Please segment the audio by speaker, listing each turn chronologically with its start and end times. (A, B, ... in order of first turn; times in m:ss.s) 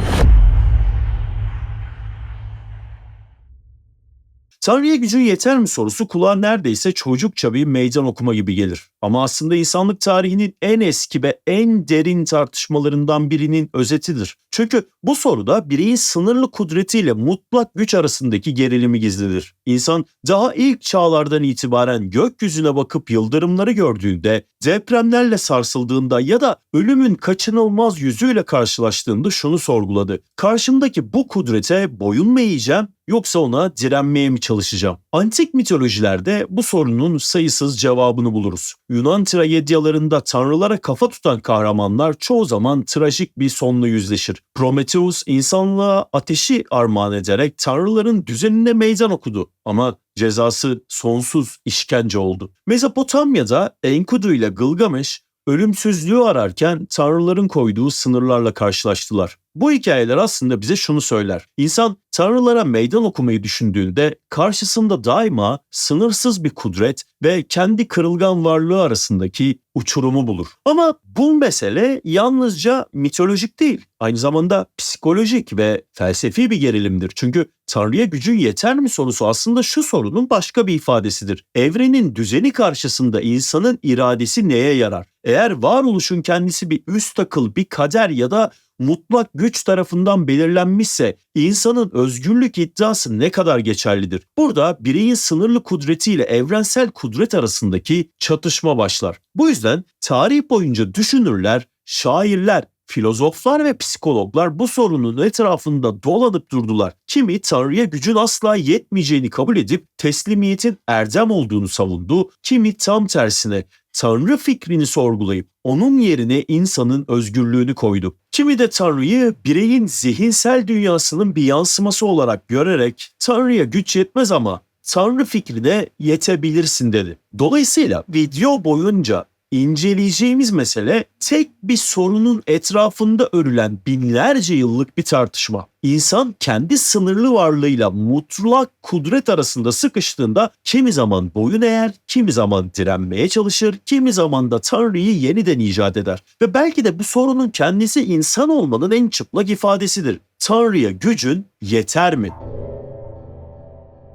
0:04.6-2:32.4 A